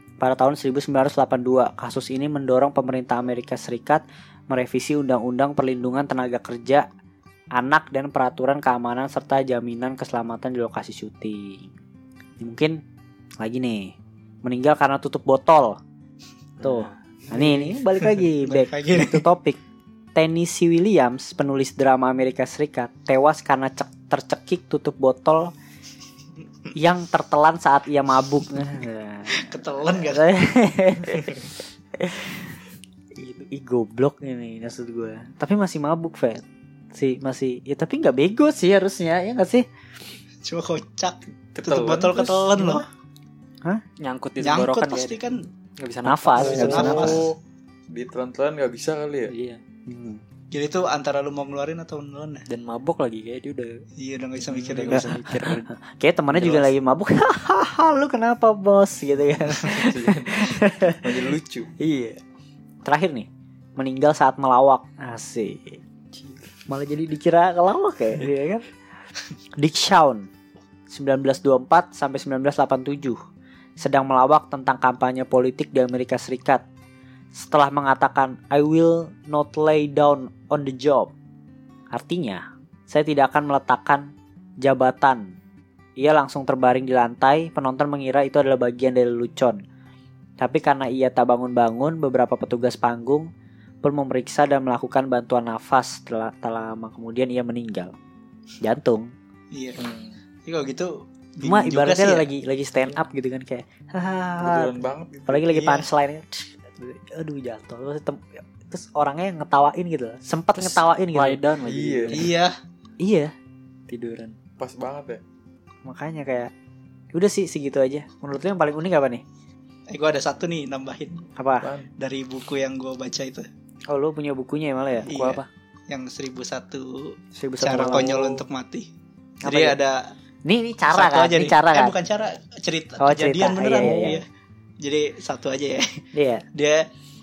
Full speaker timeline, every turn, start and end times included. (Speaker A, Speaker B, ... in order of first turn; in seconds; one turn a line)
Speaker A: 0.2-6.8
Speaker A: 7.5-11.7
Speaker A: 12.4-12.8
Speaker A: 13.4-15.8
Speaker B: 16.6-17.0
Speaker A: 16.6-19.6
Speaker C: 17.3-19.2
Speaker A: 20.1-25.5
Speaker A: 26.7-29.5
Speaker C: 29.3-30.3
Speaker A: 30.1-31.4
Speaker A: 32.0-32.5
Speaker A: 33.2-36.4
Speaker A: 36.9-39.6
Speaker C: 40.4-42.8
Speaker D: 41.5-42.8
Speaker B: 44.0-45.2
Speaker C: 44.4-45.4
Speaker B: 45.8-47.2
Speaker A: 46.0-47.1
Speaker C: 46.4-47.2
Speaker D: 46.4-47.4
Speaker D: 47.9-49.3
Speaker B: 49.2-49.6
Speaker A: 49.9-50.2
Speaker C: 50.5-52.4
Speaker B: 52.5-53.8
Speaker C: 54.0-55.3
Speaker D: 54.5-54.9
Speaker B: 54.8-55.7
Speaker A: 55.3-61.0
Speaker B: 56.4-56.6
Speaker D: 59.6-61.7
Speaker A: 61.8-62.2
Speaker A: 62.8-65.8
Speaker B: 66.1-66.5
Speaker A: 66.7-68.6
Speaker A: 69.6-70.3
Speaker A: 70.9-73.2
Speaker A: 73.8-76.6
Speaker A: 77.3-81.1
Speaker A: 81.9-85.3
Speaker A: 86.0-89.6
Speaker A: 90.4-93.3
Speaker A: 93.8-97.9
Speaker A: 98.6-99.1
Speaker C: 99.5-99.8
Speaker D: 99.8-100.2
Speaker C: 100.4-102.2
Speaker A: 101.4-104.7
Speaker D: 104.4-105.5
Speaker A: 105.3-111.4
Speaker C: 105.5-105.9
Speaker B: 110.6-112.3
Speaker D: 111.6-112.3
Speaker C: 112.1-112.5
Speaker A: 113.0-113.3
Speaker B: 113.9-114.4
Speaker D: 114.6-115.2
Speaker A: 115.8-116.5
Speaker A: 117.1-119.2
Speaker C: 119.9-121.2
Speaker A: 121.4-121.7
Speaker D: 121.6-121.9
Speaker C: 122.0-123.5
Speaker A: 123.9-125.1
Speaker C: 125.1-128.9
Speaker B: 125.1-125.5
Speaker A: 127.3-128.1
Speaker D: 127.9-128.4
Speaker C: 129.4-130.1
Speaker A: 129.4-129.8
Speaker A: 130.4-131.9
Speaker C: 130.9-134.2
Speaker A: 133.0-134.2
Speaker C: 134.8-136.0
Speaker A: 136.1-136.4
Speaker C: 136.5-136.9